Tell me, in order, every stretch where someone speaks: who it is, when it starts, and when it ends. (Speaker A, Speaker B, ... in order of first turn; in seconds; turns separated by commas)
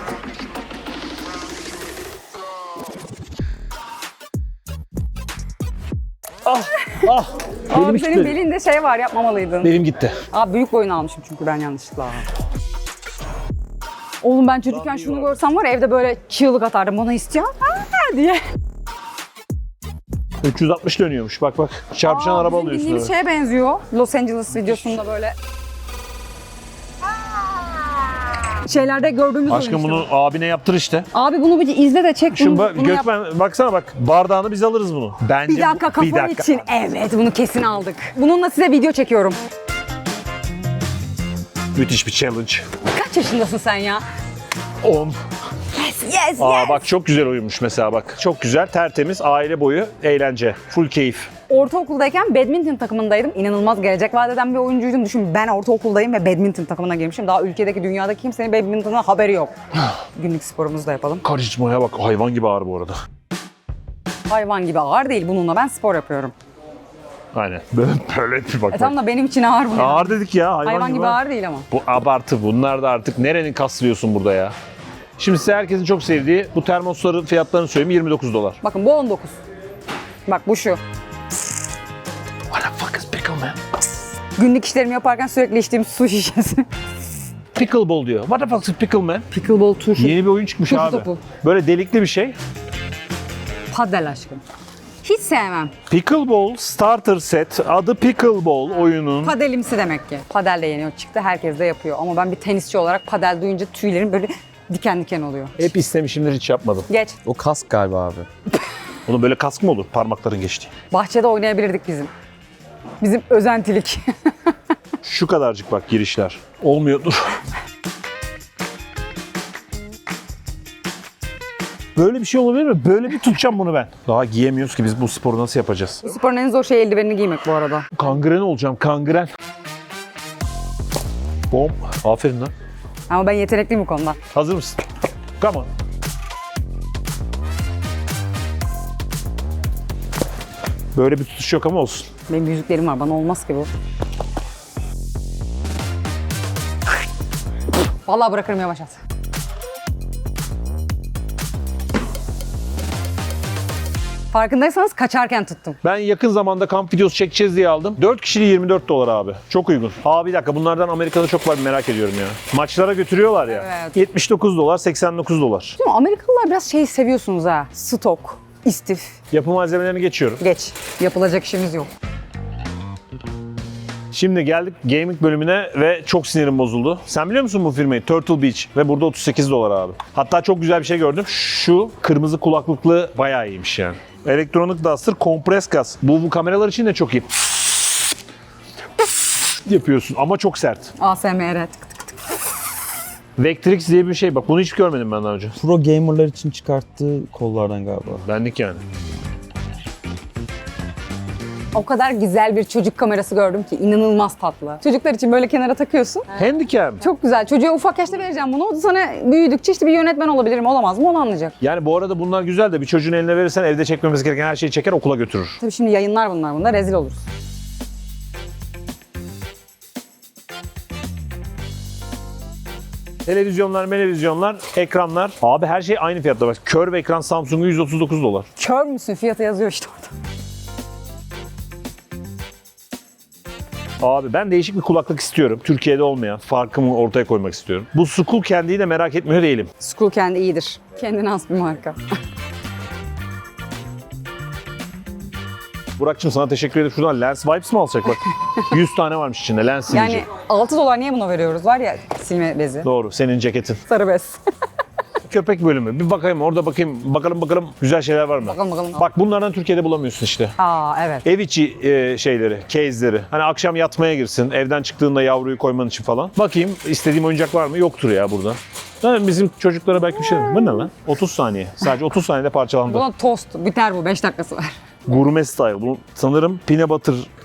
Speaker A: 6.5-8.3, Speaker B: 7.7-9.7, Speaker A: 9.6-10.2, Speaker B: 10.3-12.3, Speaker B: 14.2-18.4, Speaker A: 14.7-15.3, Speaker A: 20.4-23.1, Speaker B: 22.0-25.3, Speaker B: 27.2-28.0, Speaker B: 28.5-30.0, Speaker A: 29.5-31.1, Speaker B: 31.1-33.1, Speaker A: 32.3-36.6, Speaker B: 35.5-39.4, Speaker A: 41.7-42.7, Speaker B: 42.9-44.0, Speaker A: 44.8-45.2, Speaker B: 45.7-46.9, Speaker A: 46.4-51.3, Speaker B: 51.5-59.5, Speaker B: 60.1-61.2, Speaker A: 61.2-63.0, Speaker B: 64.3-66.3, Speaker A: 67.3-68.9, Speaker B: 68.7-71.7, Speaker A: 69.7-71.2, Speaker A: 71.7-74.5, Speaker A: 75.2-78.6, Speaker B: 78.6-79.4, Speaker B: 80.2-80.8, Speaker A: 82.5-83.7, Speaker B: 84.4-86.7, Speaker A: 87.5-89.3, Speaker B: 89.3-91.2, Speaker A: 90.0-92.3, Speaker B: 93.7-94.4, Speaker B: 95.0-95.7, Speaker A: 95.9-99.3, Speaker B: 99.2-105.6, Speaker A: 105.6-106.9, Speaker B: 106.9-107.2, Speaker C: 107.2-108.3, Speaker A: 109.1-110.7, Speaker B: 110.9-112.1, Speaker B: 113.0-114.3, Speaker A: 115.0-117.3, Speaker A: 122.0-126.1, Speaker B: 126.0-127.9, Speaker A: 127.9-129.3, Speaker A: 131.5-132.5, Speaker B: 133.1-134.2, Speaker A: 134.3-134.8, Speaker A: 135.4-135.7, Speaker A: 140.9-142.1, Speaker B: 142.3-143.7, Speaker B: 148.1-149.0, Speaker B: 154.3-155.8, Speaker A: 155.8-165.8, Speaker B: 163.5-164.0, Speaker B: 165.8-169.1, Speaker A: 169.3-170.4, Speaker B: 170.4-171.9, Speaker A: 174.1-188.0, Speaker A: 189.3-190.9, Speaker B: 191.0-192.4, Speaker A: 193.4-195.6, Speaker C: 195.6-198.2, Speaker A: 198.2-198.8, Speaker B: 201.7-206.4, Speaker A: 206.3-207.0, Speaker B: 207.0-211.5, Speaker A: 211.6-215.6, Speaker B: 215.6-217.2, Speaker A: 223.2-228.5, Speaker B: 228.6-230.1, Speaker A: 234.0-239.7, Speaker B: 239.8-242.0, Speaker A: 246.0-250.2, Speaker B: 249.9-252.9, Speaker A: 252.8-253.8, Speaker B: 253.9-254.4, Speaker A: 255.2-260.5, Speaker B: 258.4-259.0, Speaker B: 260.6-261.2, Speaker A: 261.2-273.0, Speaker B: 272.9-274.7, Speaker A: 275.1-277.3